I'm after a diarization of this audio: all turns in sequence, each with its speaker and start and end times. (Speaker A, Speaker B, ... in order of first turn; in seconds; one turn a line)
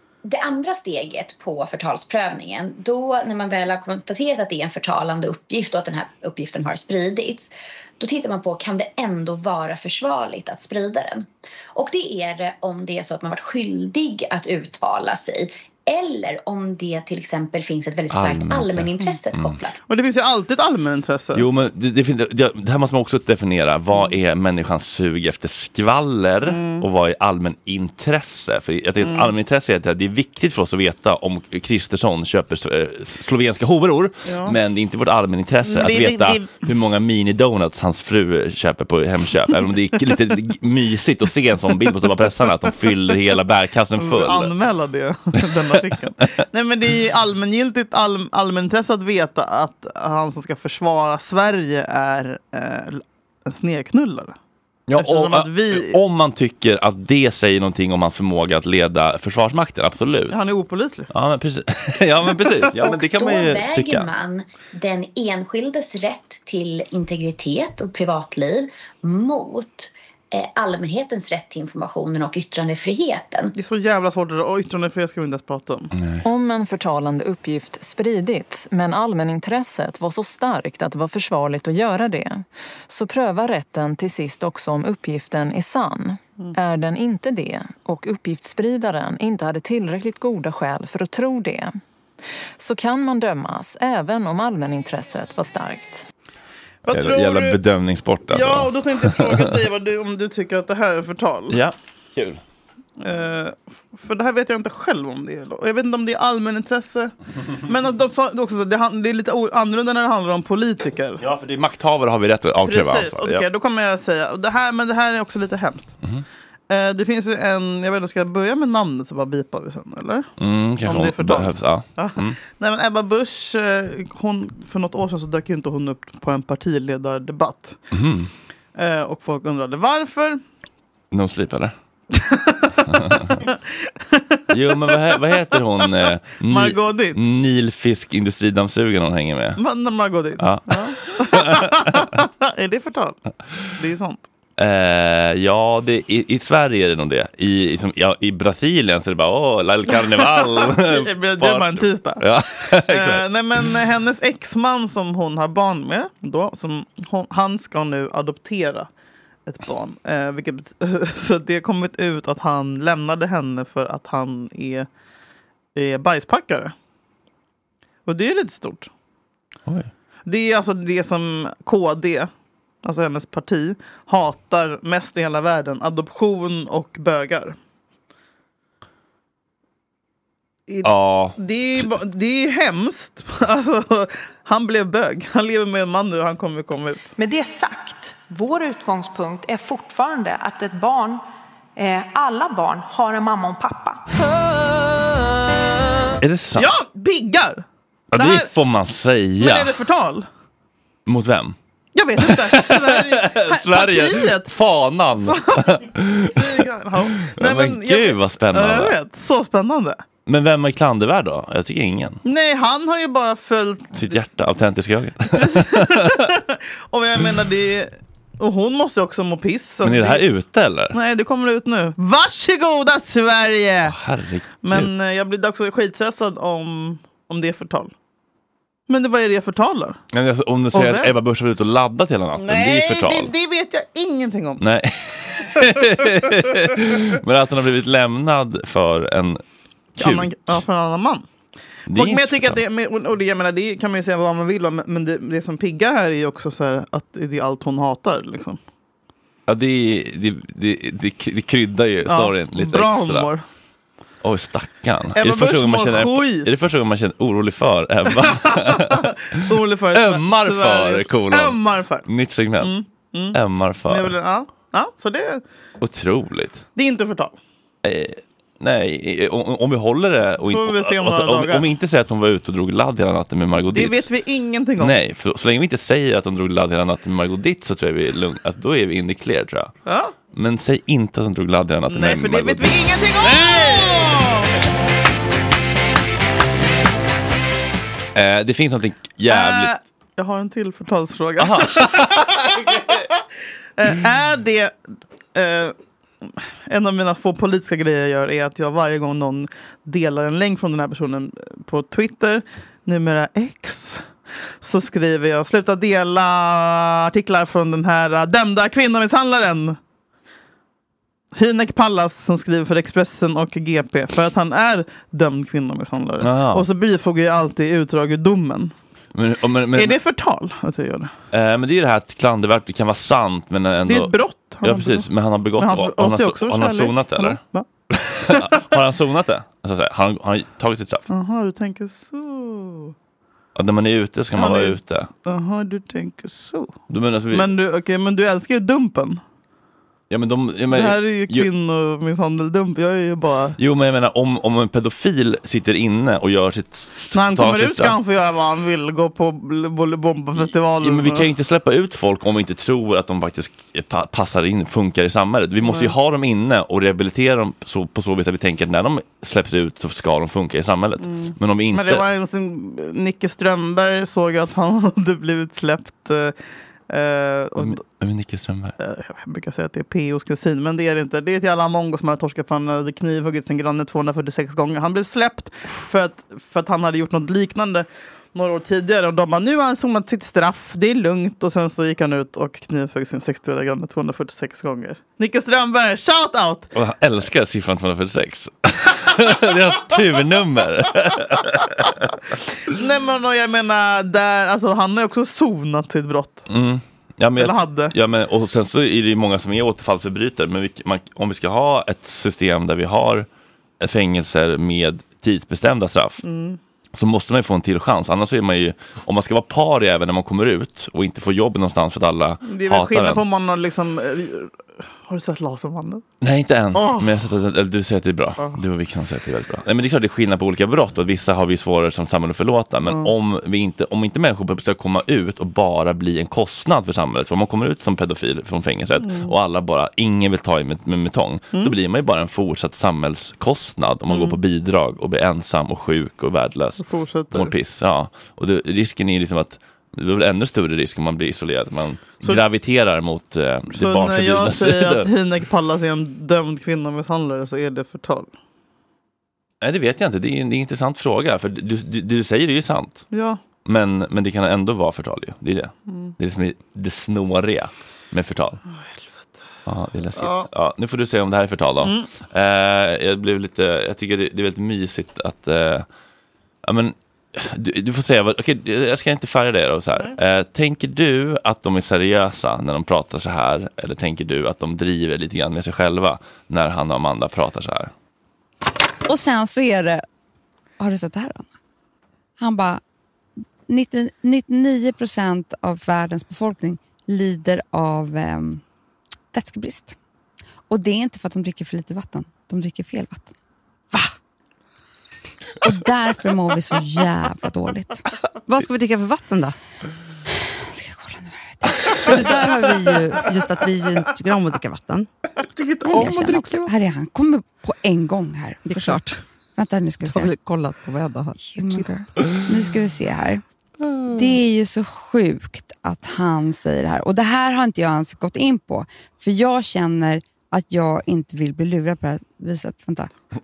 Speaker A: 0.2-19.8
Speaker B: 18.1-19.6
Speaker C: 19.9-21.4
Speaker B: 21.4-44.5
Speaker C: 26.4-26.8
Speaker C: 29.0-29.3
Speaker C: 34.2-34.5
Speaker C: 35.6-36.7
Speaker C: 44.0-54.4
Speaker B: 54.9-60.5
Speaker C: 55.0-56.0
Speaker C: 60.3-61.1
Speaker B: 61.1-64.1
Speaker A: 62.8-73.5
Speaker C: 73.5-75.9
Speaker B: 76.0-76.2
Speaker D: 76.2-91.8
Speaker D: 92.6-96.1
Speaker C: 96.9-97.6
Speaker B: 96.9-99.4
Speaker C: 98.3-101.6
Speaker B: 101.5-102.4
Speaker C: 103.0-107.1
Speaker C: 107.7-111.2
Speaker B: 111.2-113.4
Speaker C: 112.7-115.9
Speaker C: 116.7-120.3
Speaker B: 120.4-122.4
Speaker C: 120.8-127.8
Speaker B: 127.9-128.3
Speaker C: 128.8-130.4
Speaker B: 131.1-131.7
Speaker C: 132.2-133.6
Speaker B: 132.9-133.4
Speaker C: 134.1-134.4
Speaker B: 134.5-139.6
Speaker C: 134.9-135.2
Speaker C: 136.5-137.2
Speaker C: 139.6-143.2
Speaker B: 140.4-142.1
Speaker C: 143.7-144.2
Speaker B: 144.6-153.2
Speaker C: 149.9-152.2
Speaker C: 152.8-158.9
Speaker C: 159.5-164.9
Speaker C: 165.8-166.7
Speaker C: 168.1-168.9
Speaker C: 170.3-172.3
Speaker C: 172.8-177.6
Speaker C: 180.7-187.1
Speaker B: 180.8-181.9
Speaker E: 187.2-191.2
Speaker E: 191.8-194.0
Speaker B: 196.2-196.7
Speaker C: 196.6-198.5
Speaker B: 198.1-199.8
Speaker C: 199.4-200.3
Speaker B: 201.1-201.6
Speaker C: 201.9-204.5
Speaker B: 202.2-206.4
Speaker C: 205.2-210.0
Speaker B: 207.2-209.0
Speaker B: 210.3-212.2
Speaker C: 212.2-214.2
Speaker B: 213.9-216.0
Speaker C: 215.3-220.2
Speaker B: 219.8-220.9
Speaker C: 220.9-223.9
Speaker B: 223.9-224.9
Speaker C: 224.6-227.9
Speaker C: 228.9-230.0
Speaker B: 230.1-233.3
Speaker C: 230.7-231.1
Speaker C: 232.4-234.6
Speaker B: 234.6-239.4
Speaker C: 235.6-236.2
Speaker B: 240.0-240.6
Speaker C: 240.0-241.3
Speaker B: 241.9-242.6
Speaker C: 241.9-248.6
Speaker B: 249.5-253.3
Speaker C: 252.1-253.4
Speaker B: 254.2-259.1
Speaker C: 255.2-256.5
Speaker C: 258.2-262.1
Speaker B: 259.9-262.7
Speaker C: 262.6-263.4
Speaker B: 263.3-264.1
Speaker C: 263.9-265.4
Speaker B: 265.8-266.7
Speaker C: 266.8-267.4
Speaker B: 267.8-274.1
Speaker C: 270.4-271.7
Speaker C: 273.7-275.0
Speaker B: 274.8-279.7
Speaker C: 279.9-280.1
Speaker B: 280.3-284.2
Speaker C: 281.9-284.5
Speaker B: 288.1-289.7
Speaker C: 289.3-293.1
Speaker B: 291.4-292.9
Speaker C: 293.8-294.8
Speaker C: 295.3-304.1
Speaker C: 304.6-309.8
Speaker C: 311.4-318.7
Speaker B: 316.2-316.7
Speaker B: 319.1-320.0
Speaker C: 319.8-321.1
Speaker B: 321.3-327.4
Speaker C: 323.9-325.1
Speaker C: 325.6-327.7
Speaker C: 328.2-328.7
Speaker B: 328.3-331.1
Speaker C: 331.1-332.9
Speaker B: 333.6-335.1
Speaker C: 334.4-336.7
Speaker B: 336.9-337.5
Speaker C: 337.3-339.2
Speaker B: 340.1-341.5
Speaker C: 340.7-343.6
Speaker B: 343.6-347.9
Speaker C: 347.1-351.2
Speaker B: 350.8-362.1
Speaker C: 355.6-355.9
Speaker C: 361.0-366.4
Speaker C: 366.9-367.8
Speaker B: 367.6-368.8
Speaker C: 368.8-386.7
Speaker B: 386.7-391.9
Speaker C: 392.7-396.5
Speaker B: 396.5-403.3
Speaker C: 397.4-397.9
Speaker B: 403.8-406.2
Speaker C: 406.2-406.6
Speaker B: 407.0-413.2
Speaker C: 412.4-416.0
Speaker B: 416.2-445.1
Speaker C: 416.8-417.1
Speaker C: 429.0-429.3
Speaker C: 434.1-434.4
Speaker C: 436.8-437.5
Speaker C: 443.7-448.3
Speaker B: 449.6-453.1
Speaker C: 453.1-453.4
Speaker B: 453.6-458.6
Speaker C: 455.9-456.1
Speaker C: 458.7-459.4
Speaker B: 459.7-465.9
Speaker C: 460.1-460.5
Speaker C: 461.8-462.1
Speaker B: 466.6-477.9
Speaker F: 479.1-480.0
Speaker F: 480.8-481.5
Speaker F: 482.4-482.8
Speaker F: 483.7-488.6
Speaker F: 489.3-490.0
Speaker F: 490.7-493.3
Speaker F: 495.6-498.1
Speaker G: 498.5-499.6
Speaker F: 500.5-502.3
Speaker G: 502.0-505.1
Speaker F: 505.8-509.0
Speaker G: 505.9-506.6
Speaker G: 508.7-509.2
Speaker F: 509.6-510.3
Speaker G: 510.0-511.9
Speaker F: 511.4-513.4
Speaker F: 514.1-523.1